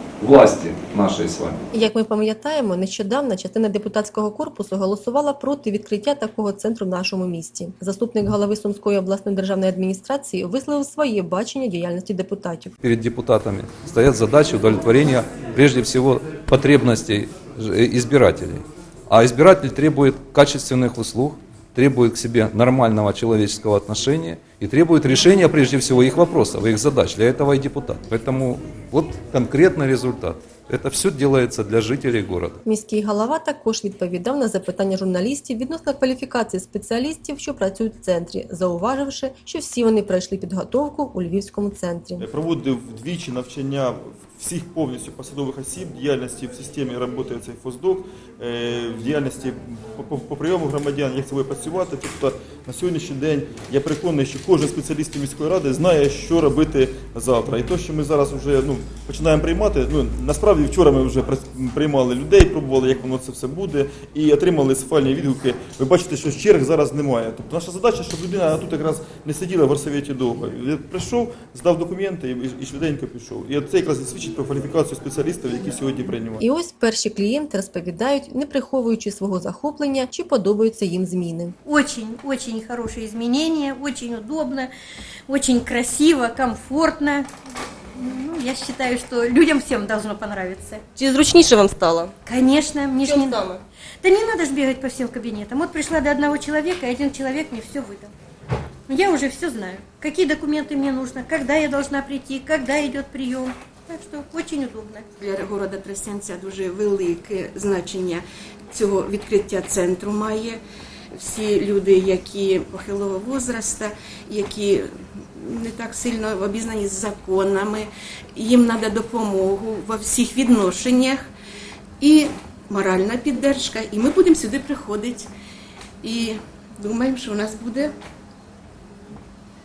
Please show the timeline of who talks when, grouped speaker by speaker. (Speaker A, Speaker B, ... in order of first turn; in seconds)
Speaker A: 0.2-1.6, 12.8-32.6
Speaker B: 1.7-12.7, 32.6-42.2, 76.4-81.5, 91.0-92.1, 93.1-93.6
Speaker C: 42.2-76.4
Speaker D: 81.7-84.7, 85.3-87.3, 88.0-90.9, 92.2-93.5, 94.0-98.1, 98.9-105.1
Speaker E: 105.2-110.6, 111.1-121.3, 122.0-125.3, 126.0-127.9